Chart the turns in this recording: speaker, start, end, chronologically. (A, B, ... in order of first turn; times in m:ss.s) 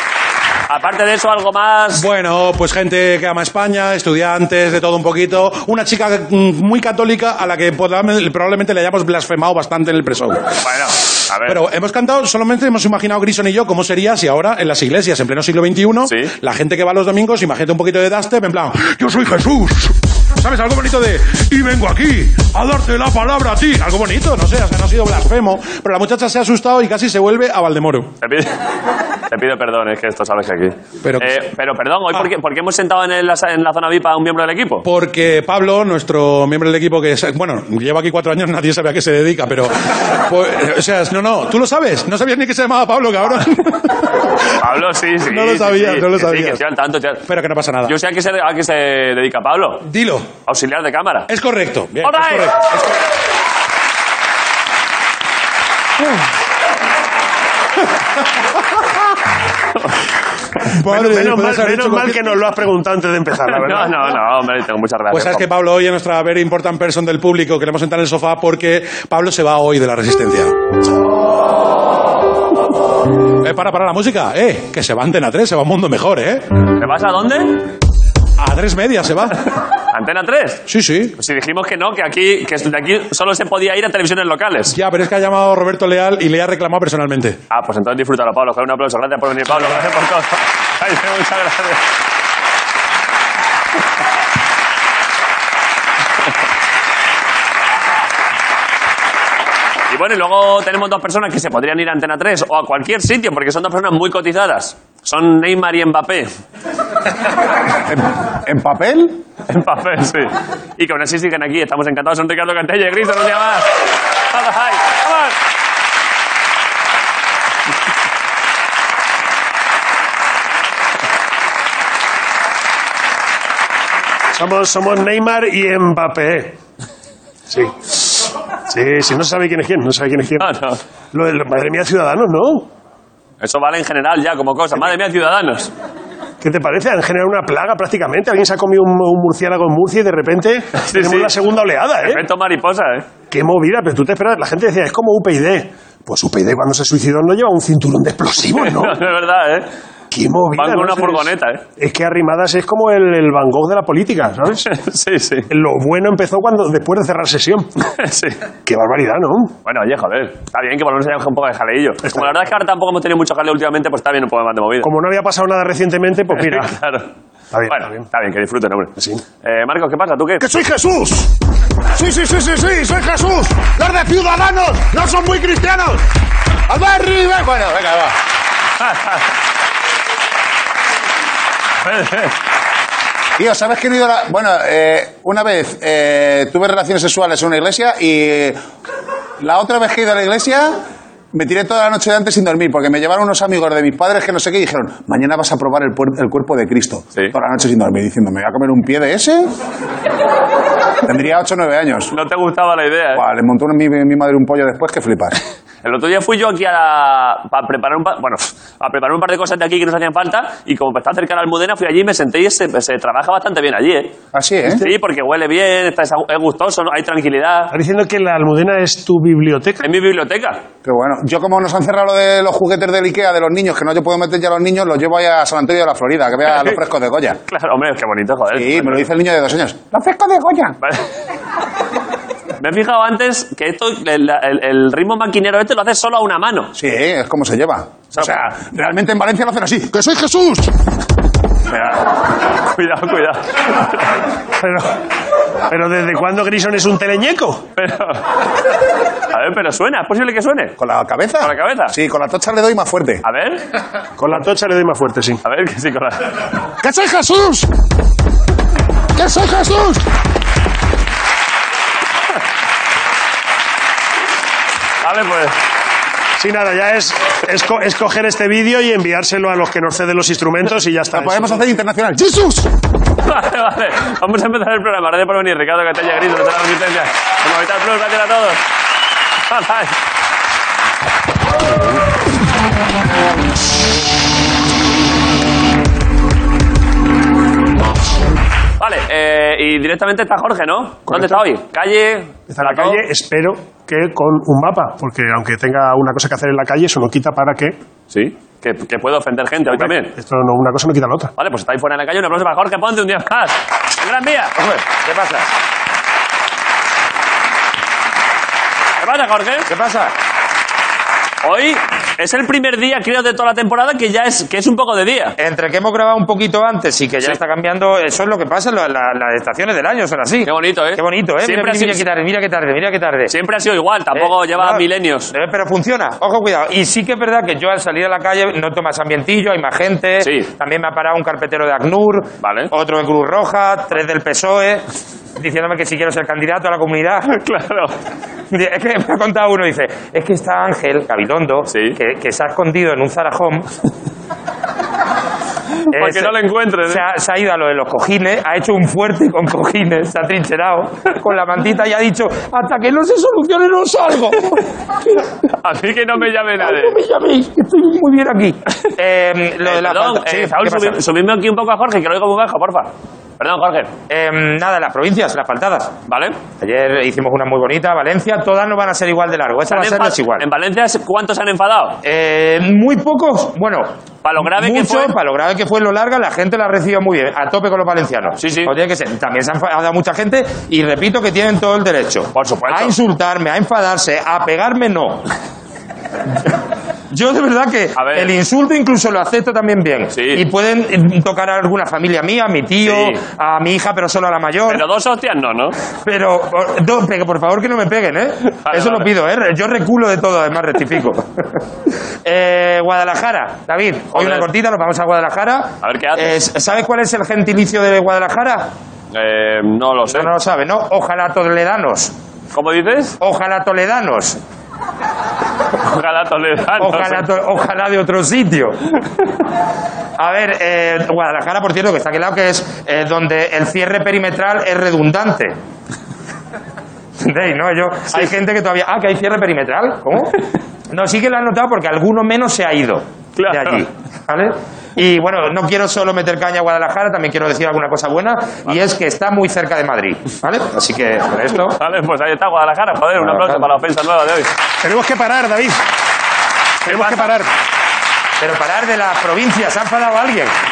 0:00.7-0:02.0 A
0:02.0-0:10.4 B
0:10.6-0:11.6 A
0:11.4-0:28.1 B
0:28.2-0:28.6 A
0:29.3-0:34.8 A
0:31.0-0:31.3 B
0:34.8-0:44.3 B
0:44.6-0:47.2 A
0:45.3-0:46.6 B
0:47.3-0:48.0 B
0:47.9-0:49.8 A
0:49.8-0:50.3 B
0:50.5-0:51.3 A
0:51.3-0:52.9 B
0:52.0-0:52.5 A
1:00.7-1:02.4 B
1:00.8-1:04.2 C
1:03.5-1:05.5 A
1:05.1-1:10.5 B
1:13.4-1:16.4 B
1:16.8-1:17.6 A
1:18.4-1:19.4 B
1:19.9-1:20.6 A
1:20.7-1:21.2 B
1:21.2-1:24.8 A
1:24.7-1:27.4 B
1:27.5-1:31.8 A
1:39.9-1:46.3 A
1:47.9-1:49.2 D
1:49.5-1:53.7 A
1:54.3-1:55.4 A
2:04.3-2:06.6 C
2:07.5-2:10.5 C
2:10.4-2:10.8 A
2:11.1-2:12.7 C
2:13.4-2:15.7 A
2:16.4-2:22.2 C
2:20.8-2:21.3 A
2:22.0-2:23.1 A
2:23.3-2:29.0 C
2:28.5-2:29.7 A
2:30.1-2:34.7 C
2:30.5-2:31.6 A
2:34.7-2:35.5 A
2:35.5-2:37.7 C
2:37.9-2:38.4 A
2:38.7-2:39.6 C
2:39.6-2:44.9 A
2:42.0-2:42.4 C
2:44.8-2:46.7 C
2:46.4-2:47.1 A
2:47.5-2:48.0 C
2:47.7-2:50.4 A
2:49.0-2:49.2 C
2:50.4-2:51.3 D
2:51.9-2:56.1 D
2:56.7-2:58.2 D
2:58.8-2:59.2 A
3:01.8-3:02.3 A
3:03.4-3:08.6 D
3:09.4-3:10.8 D
3:11.3-3:19.5 D
3:21.0-3:22.1 D
3:22.1-3:23.2 A
3:23.1-3:25.4 D
3:25.8-3:34.1 A
3:34.3-3:34.8 D
3:34.8-3:37.7 A
3:37.7-3:39.9 C
3:39.8-3:40.6 A
3:40.8-3:47.4 D
3:47.5-3:49.1 A
3:48.5-3:50.8 D
3:52.6-3:56.7 A
3:56.8-4:00.7 D
3:58.1-3:58.4 A
4:02.7-4:04.1 A
4:04.6-4:05.0 C
4:05.7-4:07.6 C
4:07.8-4:08.2 A
4:09.3-4:10.8 A
4:10.8-4:13.2 D
4:11.4-4:12.0 A
4:13.2-4:13.6 A
4:14.2-4:15.4 C
4:15.4-4:16.3 A
4:16.8-4:17.7 D
4:19.2-4:20.0 D
4:25.0-4:25.6 A
4:26.4-4:31.6 C
4:31.1-4:32.7 D
4:33.2-4:38.6 A
4:39.5-4:40.0 A
4:48.8-4:53.0 A
4:51.1-4:51.4 C
4:52.5-4:57.8 C
4:58.1-5:00.2 A
4:59.7-5:01.3 C
5:01.4-5:04.5 A
5:04.6-5:05.5 E
5:09.0-5:09.7 A
5:09.7-5:10.1 E
5:11.4-5:15.4 A
5:15.4-5:23.3 E
5:20.4-5:22.1 A
5:23.3-5:25.3 A
5:24.1-5:34.8 E
5:30.2-5:30.5 A
5:32.4-5:32.7 A
5:35.4-5:37.4 E
5:37.3-5:37.9 A
5:38.5-5:43.7 E
5:41.7-5:42.0 A
5:45.9-5:47.0 A
5:45.9-5:54.6 E
5:55.6-5:57.0 A
5:56.6-6:01.0 E
5:59.6-6:03.9 A
6:04.1-6:06.0 E
6:06.1-6:06.4 A
6:06.6-6:10.4 E
6:09.7-6:12.0 A
6:12.0-6:25.3 E
6:14.2-6:15.2 A
6:18.4-6:18.7 A
6:22.4-6:23.0 A
6:27.1-6:34.8 E
6:28.0-6:28.3 A
6:30.1-6:30.4 A
6:32.8-6:33.2 A
6:34.7-6:35.8 A
6:36.0-6:41.6 E
6:38.6-6:39.1 A
6:42.2-6:48.7 E
6:44.1-6:44.5 A
6:45.8-6:46.4 A
6:49.1-6:50.3 A
6:50.1-6:52.1 E
6:52.5-6:53.2 A
6:53.2-6:54.4 E
6:55.8-6:57.2 A
6:56.8-6:58.9 E
7:00.2-7:05.6 E
7:07.2-7:21.8 E
7:13.4-7:13.8 A
7:21.8-7:24.5 A
7:23.2-7:23.7 E
7:24.8-7:25.8 C
7:26.8-7:27.4 A
7:26.9-7:27.5 C
7:28.4-7:30.5 E